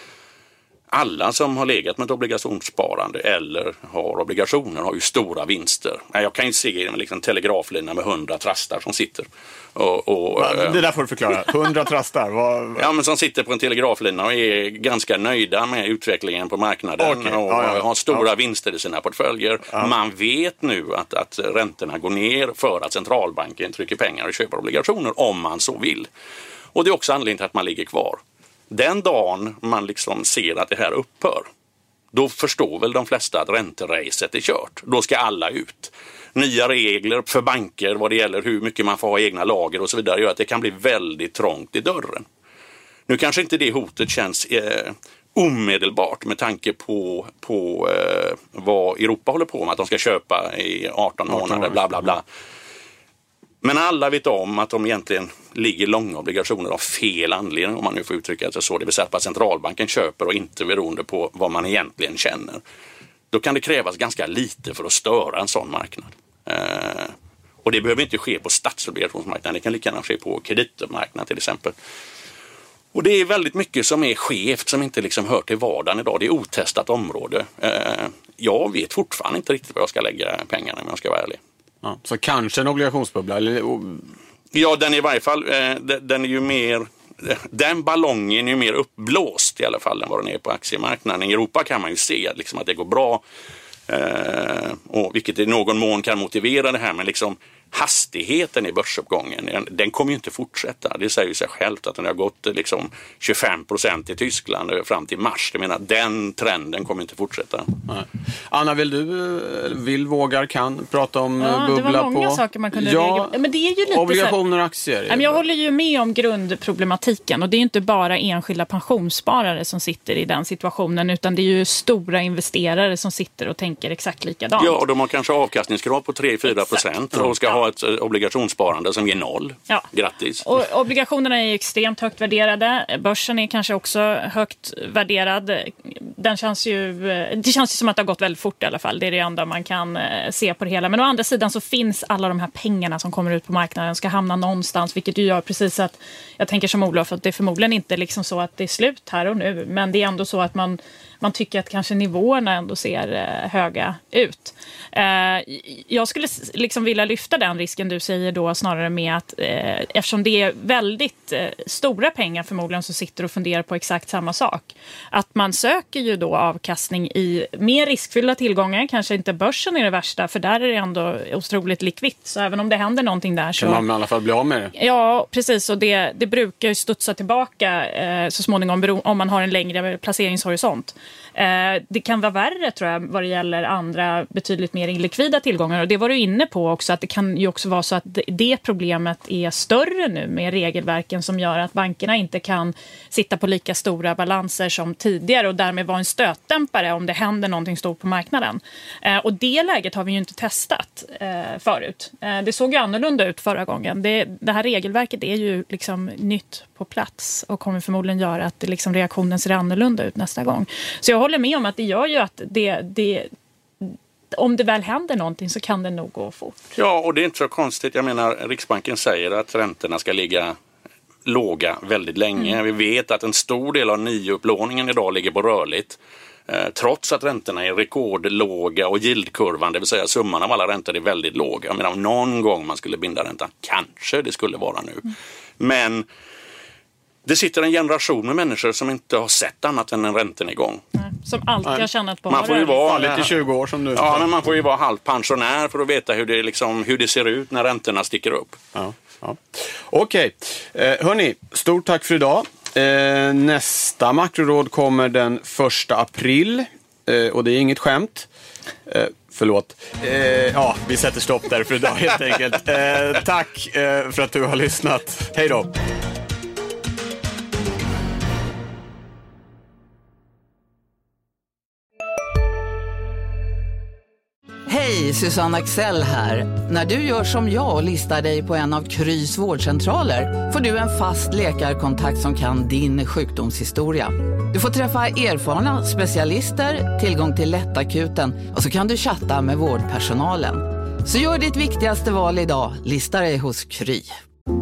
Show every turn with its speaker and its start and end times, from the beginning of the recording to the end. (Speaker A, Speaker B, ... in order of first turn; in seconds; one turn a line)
Speaker A: 0.9-10.8
Speaker B: 10.4-12.9
Speaker A: 12.8-26.1
Speaker B: 17.0-18.2
Speaker A: 26.7-31.5
Speaker A: 32.1-42.2
Speaker A: 43.1-52.2
Speaker B: 51.3-51.8
Speaker A: 53.6-62.6
Speaker A: 63.3-71.7
Speaker A: 72.9-81.4
Speaker B: 81.8-84.1
Speaker A: 84.5-93.2
Speaker A: 93.9-107.7
Speaker B: 107.9-113.3
Speaker C: 111.4-114.4
Speaker B: 113.9-115.4
Speaker C: 115.1-124.8
Speaker A: 124.6-130.5
Speaker C: 126.5-126.8
Speaker C: 130.4-173.8
Speaker B: 173.6-174.7
Speaker C: 174.8-213.3
Speaker C: 213.8-216.7
Speaker A: 216.8-220.6
Speaker A: 221.3-236.1
Speaker A: 237.2-240.8
Speaker C: 241.0-243.1
Speaker B: 241.7-244.3
Speaker A: 242.3-243.3
Speaker A: 243.9-248.6
Speaker B: 248.8-258.3
Speaker B: 258.9-265.8
Speaker D: 274.7-294.2